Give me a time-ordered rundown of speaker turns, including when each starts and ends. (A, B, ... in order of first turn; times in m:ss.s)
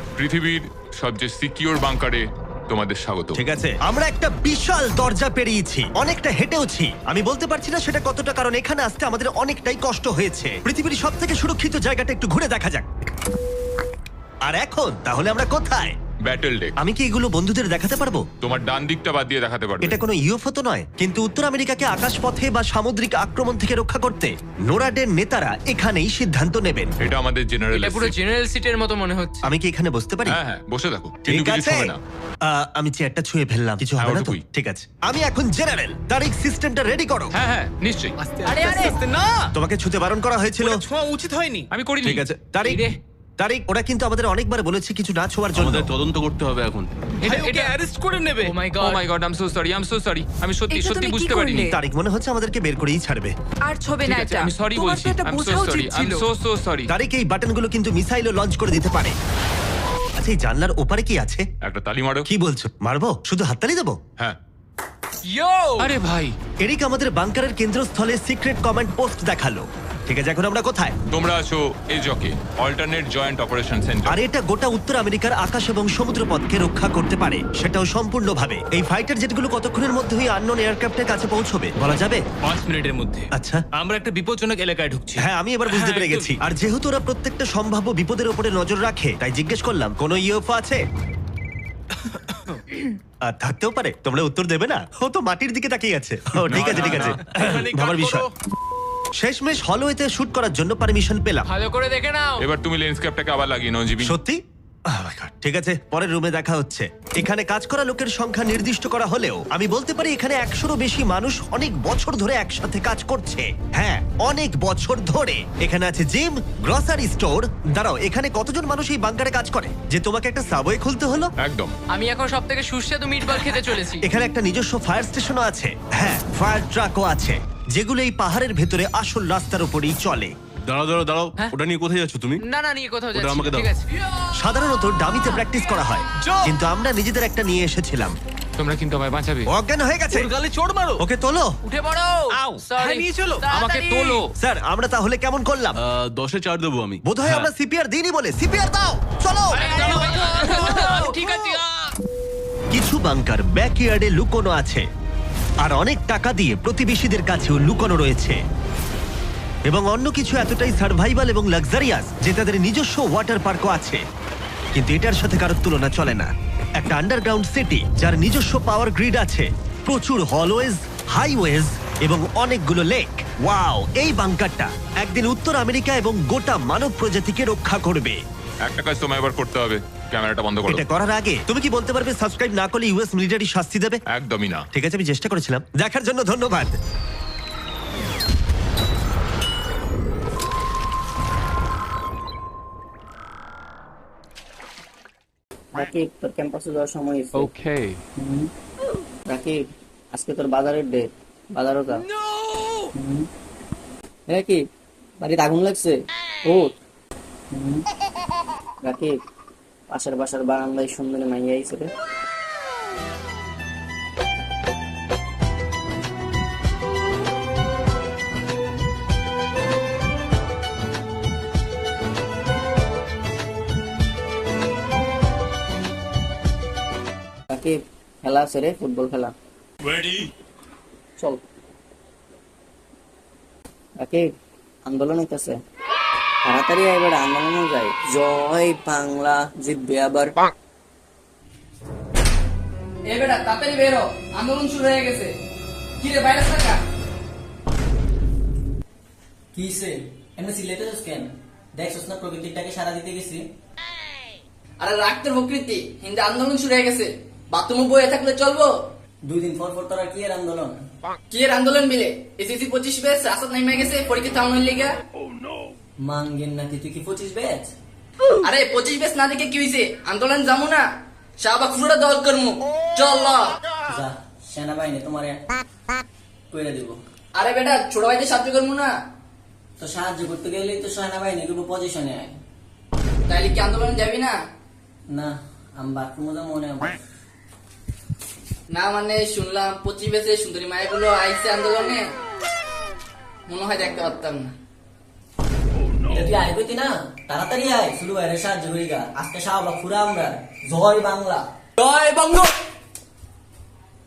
0:00.2-0:03.4 A
0:03.3-0:12.9 B
0:14.5-0:15.9 B
0:16.3-0:16.7 A
0:16.8-0:18.2 B
0:18.4-0:20.0 A
0:19.8-0:26.9 B
0:27.0-0:28.2 A
0:27.7-0:29.5 C
0:29.4-0:30.4 B
0:30.3-0:32.0 A
0:31.3-0:32.0 B
0:32.5-0:37.3 B
0:34.0-0:34.4 A
0:37.3-0:38.1 A
0:38.2-0:39.5 D
0:38.5-0:39.0 C
0:39.6-0:40.8 B
0:40.6-0:41.7 D
0:41.7-0:42.2 A
0:42.0-0:42.8 B
0:42.6-0:43.0 C
0:43.4-0:45.9 B
0:45.6-0:46.9 E
0:47.2-0:48.6 D
0:47.2-0:47.7 C
0:48.4-0:48.8 C
0:48.8-0:51.7 A
0:50.7-0:51.8 F
0:51.7-0:53.3 B
0:53.7-0:56.3 F
0:54.0-0:56.9 A
0:56.9-0:59.2 B
1:00.2-1:01.4 B
1:01.6-1:02.2 A
1:02.3-1:04.0 B
1:05.3-1:05.9 C
1:05.8-1:06.3 A
1:06.6-1:11.0 B
1:11.1-1:14.2 A
1:14.1-1:22.2 B
1:22.4-1:26.4 D
1:23.3-1:23.6 B
1:25.2-1:30.8 B
1:32.1-1:32.6 D
1:33.2-1:38.3 B
1:36.5-1:37.2 A
1:36.6-1:38.3 D
1:39.2-1:41.5 B
1:41.4-1:42.4 C
1:42.4-1:44.1 A
1:44.0-1:44.4 B
1:44.9-2:01.3 B
2:01.4-2:01.7 A
2:01.9-2:04.1 C
2:04.0-2:10.3 B
2:10.7-2:12.4 E
2:12.4-2:14.2 C
2:13.1-2:13.8 E
2:14.4-2:18.1 B
2:16.2-2:16.6 D
2:18.6-2:19.5 A
2:19.5-2:20.3 B
2:20.1-2:21.0 D
2:21.0-2:21.5 B
2:21.6-2:24.2 C
2:22.3-2:23.5 D
2:23.5-2:24.2 A
2:24.4-2:25.8 B
2:25.9-2:27.5 E
2:27.0-2:30.2 B
2:29.5-2:31.6 A
2:30.4-2:31.4 D
2:30.4-2:31.6 C
2:32.7-2:34.8 B
2:35.6-2:38.4 B
2:39.7-2:44.0 B
2:44.7-2:58.2 B
2:58.7-3:00.8 A
3:00.7-3:04.0 B
3:04.1-3:04.6 A
3:04.7-3:06.8 B
3:15.8-3:17.5 G
3:17.4-3:18.0 A
3:18.2-3:18.5 G
3:19.3-3:22.0 G
3:23.0-3:23.3 G
3:24.3-3:24.6 G
3:25.2-3:26.7 G
3:27.5-3:27.8 G
3:28.8-3:29.2 G
3:29.9-3:31.9 G
3:47.5-3:49.3 G
3:54.0-3:54.3 G
3:54.9-3:55.6 G
3:56.5-4:00.4 G
4:03.0-4:05.4 H
4:06.0-4:06.8 H
4:09.5-4:13.4 G
4:14.8-4:18.9 H
4:19.3-4:20.8 G
4:21.3-4:25.0 H
4:26.0-4:27.7 G
4:28.4-4:33.6 H
4:33.9-4:35.4 G
4:36.5-4:37.0 G
4:37.3-4:39.0 H
4:39.8-4:42.3 G
4:43.3-4:44.5 H
4:45.1-4:47.0 G
4:48.7-4:52.2 H
4:53.5-4:54.6 H
4:56.1-5:01.5 G
5:01.8-5:02.5 H